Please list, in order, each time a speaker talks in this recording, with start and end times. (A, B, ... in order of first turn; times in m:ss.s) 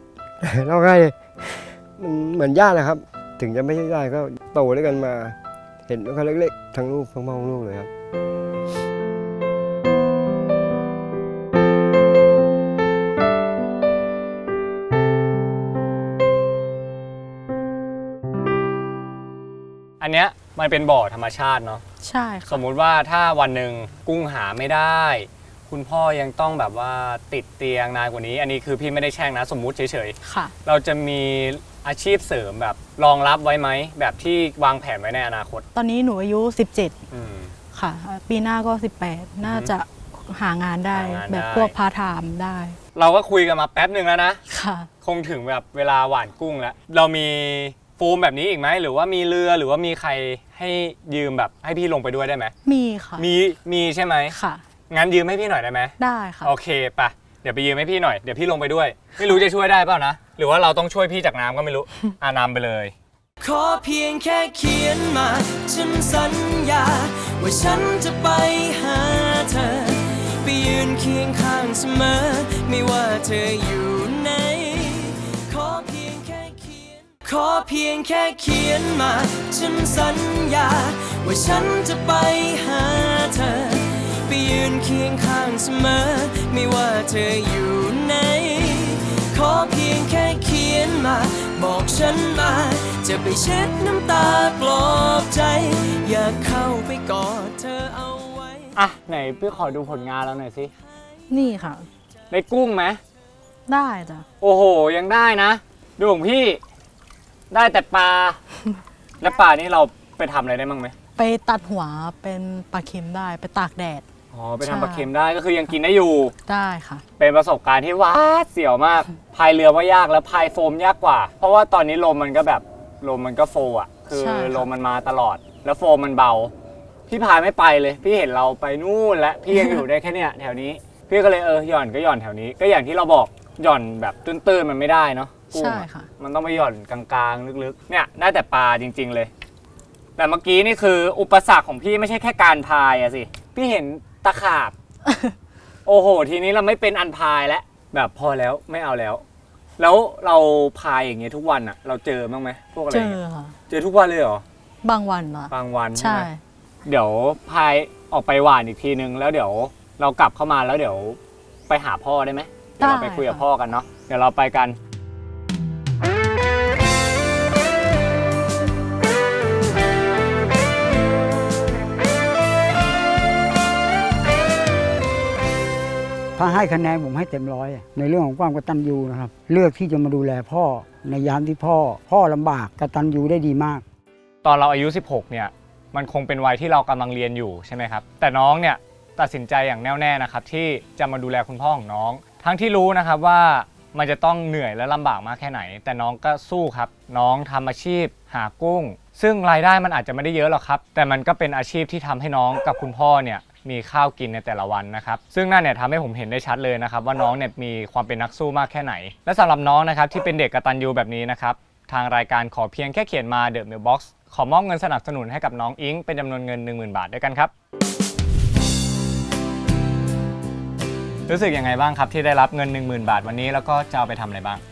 0:00.4-0:05.4 A
0:05.9-0:07.9 A
0:20.0-0:21.8 B
0:22.0-0:22.6 C
0:22.5-0:35.6 B
0:30.2-0:30.5 C
0:35.7-0:37.0 C
0:37.1-0:37.5 B
0:37.7-0:42.8 C
0:39.4-0:39.7 B
0:40.9-0:41.7 B
0:42.9-0:44.4 B
0:44.5-0:44.9 C
0:45.0-0:52.5 B
0:52.6-0:53.3 C
0:53.2-0:54.4 B
0:54.3-0:54.6 C
0:54.9-1:02.9 B
0:56.0-0:56.5 C
1:03.4-1:38.7 D
1:38.8-1:40.7 B
1:41.3-1:41.9 C
1:42.3-1:43.0 B
1:43.7-1:44.2 C
1:44.4-1:46.6 B
1:47.5-1:48.4 B
1:49.2-1:50.9 B
1:51.2-1:54.0 C
1:54.3-1:56.3 B
1:54.6-1:55.1 C
1:56.4-1:57.0 C
1:57.2-2:06.5 B
2:04.1-2:04.7 C
2:07.1-2:19.3 B
2:09.5-2:09.8 C
2:15.5-2:16.1 C
2:20.2-2:24.7 B
2:25.0-2:25.3 C
2:25.8-2:29.2 B
2:29.8-2:33.2 B
2:32.9-2:33.6 C
2:33.7-2:34.4 B
2:34.8-2:36.4 C
2:35.5-2:36.3 B
2:36.8-2:44.8 B
2:42.8-2:43.4 C
2:56.4-3:03.8 E
3:04.4-3:37.5 B
3:41.3-3:44.6 B